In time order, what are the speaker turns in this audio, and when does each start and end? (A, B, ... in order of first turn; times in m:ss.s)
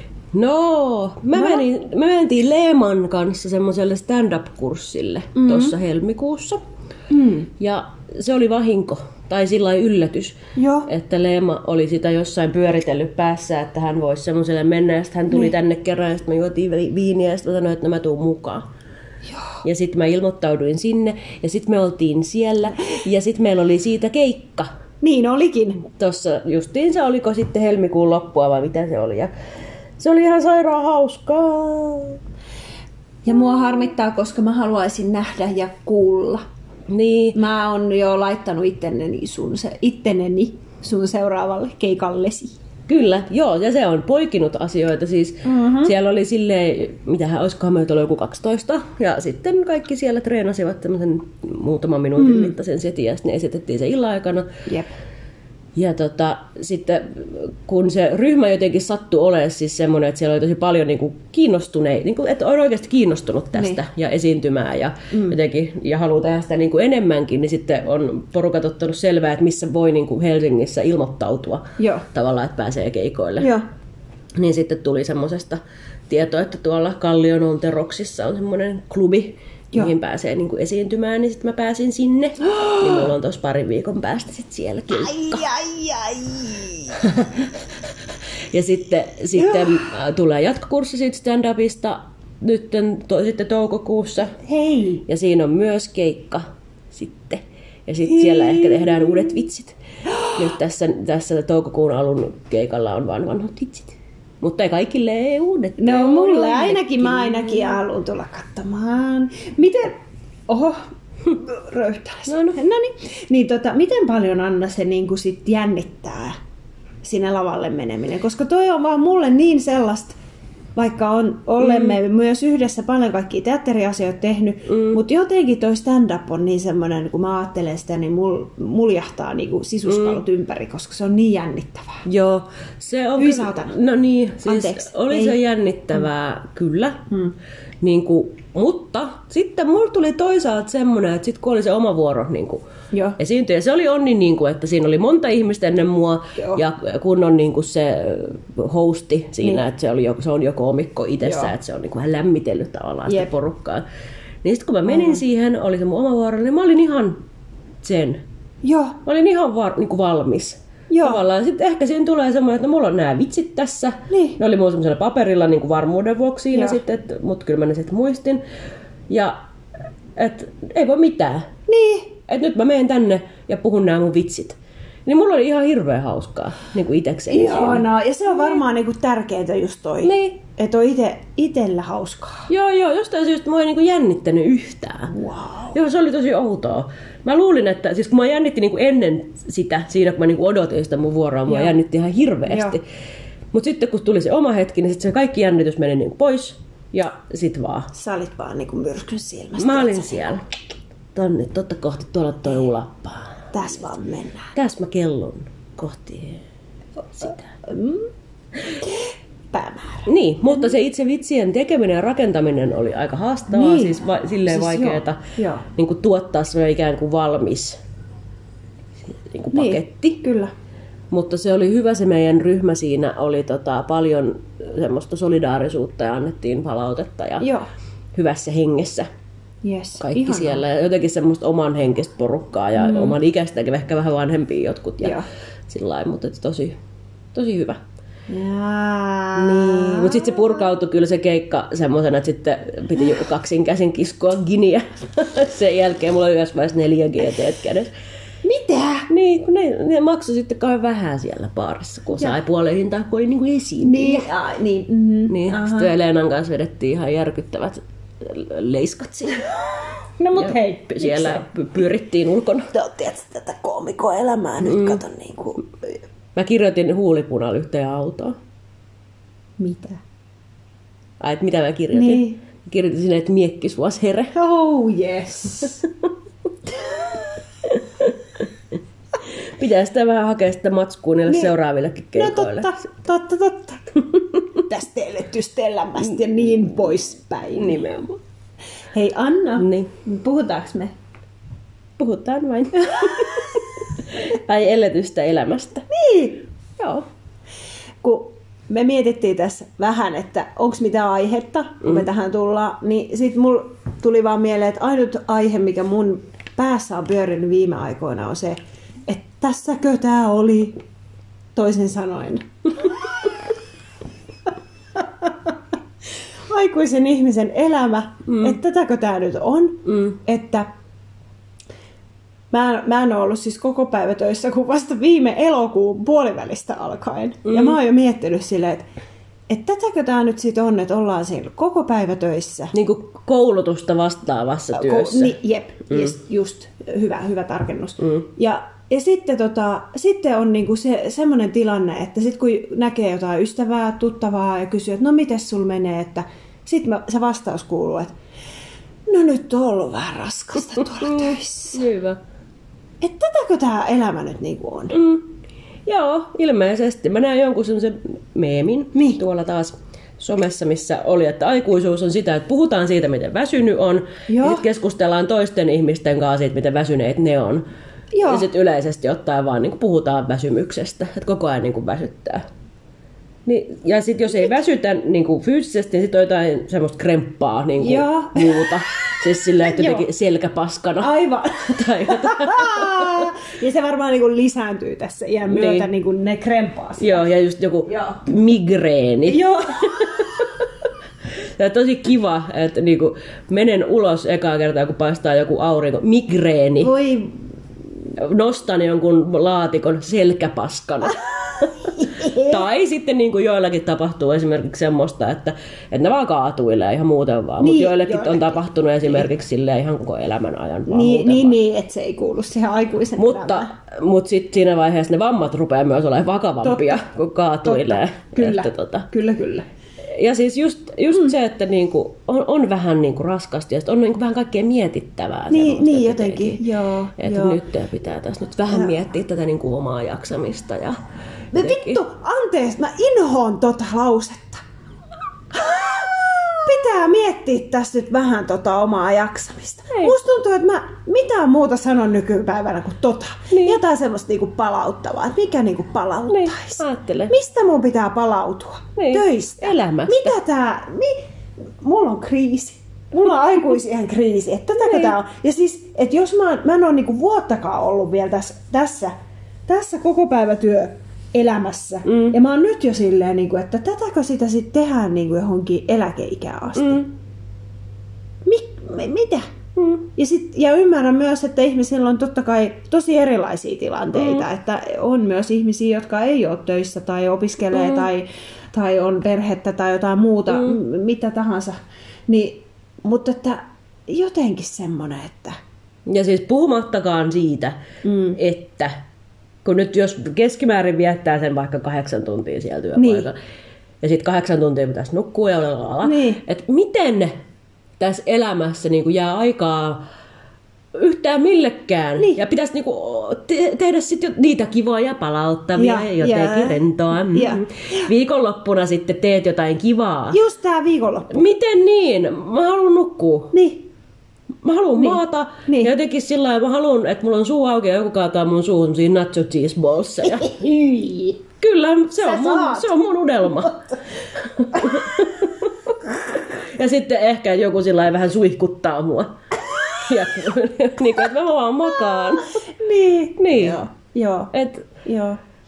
0:00.3-0:06.6 A
0:01.4-0:01.6 B
0:05.4-0:05.8 B
0:07.1-0:07.5 B
0:07.6-0:18.6 A
0:10.6-0:10.9 B
0:19.3-0:19.6 B
0:19.6-0:24.7 A
0:25.0-0:25.9 B
0:25.9-0:29.3 A
0:30.0-0:32.2 A
0:33.2-0:36.4 B
0:36.9-0:37.4 A
0:37.3-0:42.6 B
0:42.9-0:54.5 A
0:45.4-0:45.9 B
0:52.2-0:52.6 B
0:54.7-0:54.9 B
0:55.8-1:13.5 A
1:11.8-1:12.1 B
1:13.4-1:13.6 B
1:14.4-1:25.4 A
1:22.4-1:23.0 B
1:24.9-1:27.0 B
1:27.0-1:27.6 A
1:28.5-1:34.4 A
1:29.4-1:29.7 B
1:34.4-1:35.0 B
1:35.1-1:39.8 A
1:38.1-1:39.3 B
1:40.1-1:40.4 B
1:40.4-1:47.8 A
1:45.8-1:50.0 B
1:50.5-1:56.4 B
1:52.3-1:52.6 A
1:57.0-2:00.2 B
2:00.8-2:12.0 B
2:01.6-2:02.0 A
2:04.7-2:05.0 A
2:09.9-2:10.2 A
2:12.0-2:17.1 A
2:13.2-2:13.8 B
2:14.4-2:15.4 B
2:17.8-2:22.6 A
2:22.9-2:23.2 B
2:23.2-2:33.8 A
2:31.2-2:31.5 B
2:34.4-2:37.2 A
2:34.9-2:35.2 B
2:37.8-2:38.2 A
2:38.6-2:39.0 B
2:39.0-2:48.4 A
2:40.9-2:41.2 B
2:44.1-2:44.4 B
2:49.1-2:49.4 A
2:50.2-2:51.5 A
2:51.7-2:52.2 B
2:52.3-2:57.9 A
2:57.3-3:02.5 B
3:00.0-3:00.4 A
3:02.5-3:05.1 A
3:05.1-3:05.8 B
3:05.7-3:12.8 A
3:11.5-3:11.7 B
3:12.5-3:12.8 B
3:13.5-3:17.9 A
3:17.9-3:20.4 B
3:19.6-3:20.5 A
3:21.1-3:23.7 A
3:23.5-3:24.5 B
3:24.6-3:26.4 A
3:27.2-3:28.1 B
3:28.8-3:30.1 B
3:30.1-3:35.2 A
3:33.5-3:35.6 B
3:35.8-3:37.8 A
3:39.1-3:40.2 A
3:39.5-3:40.5 B
3:41.1-3:47.5 A
3:47.4-3:47.7 B
3:48.1-3:49.1 A
3:49.6-3:50.6 B
3:50.0-3:56.8 A
3:52.8-3:53.2 B
3:55.0-3:55.3 B
3:57.3-3:57.8 A
3:58.3-4:00.6 B
3:59.4-4:07.9 A
4:08.4-4:09.1 B
4:09.1-4:14.3 A
4:13.8-4:15.9 B
4:15.3-4:19.5 A
4:20.2-4:21.5 B
4:20.4-4:22.7 A
4:22.7-4:25.7 B
4:24.6-4:25.0 A
4:26.4-4:28.4 A
4:29.6-4:30.0 B
4:31.2-4:34.3 A
4:31.9-4:32.4 B
4:34.3-4:35.9 B
4:36.7-4:37.3 B
4:37.8-4:38.1 A
4:39.3-4:42.7 A
4:42.2-4:47.8 B
4:47.6-4:48.2 A
4:48.9-4:50.9 B
4:49.6-4:49.9 A
4:52.0-4:55.9 A
4:52.9-4:53.3 B
4:55.9-4:56.4 B
4:56.8-4:57.1 A
4:58.0-5:10.8 B
5:11.6-5:13.3 B
5:15.0-5:15.5 B
5:16.5-5:20.7 B
5:18.3-5:18.6 A
5:19.9-5:20.2 A
5:22.5-5:28.9 B
5:27.5-5:27.8 A
5:29.5-5:32.7 B
5:32.7-5:35.4 A
5:34.7-5:48.1 B
5:49.1-5:51.8 B
5:51.0-5:52.2 A
5:53.0-5:55.0 B
5:54.9-5:55.3 A
5:55.9-6:07.6 A
5:59.0-5:59.2 B
6:04.3-6:04.6 B
6:08.1-6:08.5 B
6:08.2-6:12.4 A
6:13.5-6:23.3 A
6:17.8-6:20.1 B
6:21.0-6:27.2 B
6:25.5-6:25.9 A
6:27.0-6:30.5 A
6:27.9-6:28.2 B
6:29.3-6:30.3 B
6:31.4-6:36.9 A
6:36.8-6:37.4 B
6:38.2-6:51.6 A
6:41.6-6:42.6 B
6:47.6-6:48.6 B
6:50.9-6:53.7 B
6:53.2-6:59.1 A
6:56.6-6:57.0 B
6:57.6-6:59.7 B
7:00.1-7:06.6 A
7:05.5-7:07.6 B
7:07.2-7:11.0 A
7:11.5-7:14.6 B
7:11.6-7:12.0 A
7:15.5-7:31.2 B
7:23.5-7:23.8 A
7:26.3-7:27.3 A
7:29.0-7:30.4 A
7:31.8-7:39.1 B
7:34.8-7:35.1 A
7:39.7-7:47.1 B
7:42.1-7:42.4 A
7:46.8-7:47.0 A
7:48.4-7:49.5 B
7:49.8-7:50.0 A
7:50.2-8:05.6 B
7:54.2-7:54.4 A
7:57.7-7:58.1 A
8:06.1-8:07.8 A
8:08.0-8:08.4 B
8:08.4-8:09.0 A
8:09.6-8:13.4 A
8:13.0-8:13.3 B
8:14.0-8:17.4 A
8:16.0-8:16.4 B
8:18.0-8:20.0 A
8:20.9-8:30.4 A
8:25.8-8:28.1 B
8:30.3-8:31.5 B
8:31.3-8:33.5 A
8:33.5-8:33.8 B
8:34.6-8:40.5 A
8:35.0-8:35.9 B
8:40.2-8:41.4 B
8:41.6-8:43.8 A
8:42.2-8:42.9 B
8:43.5-8:44.0 B
8:44.4-8:49.3 A
8:44.7-8:45.1 B
8:50.0-8:52.5 A
8:52.2-8:54.5 B
8:53.4-8:53.8 A
8:54.5-8:54.9 A
8:55.0-8:55.4 B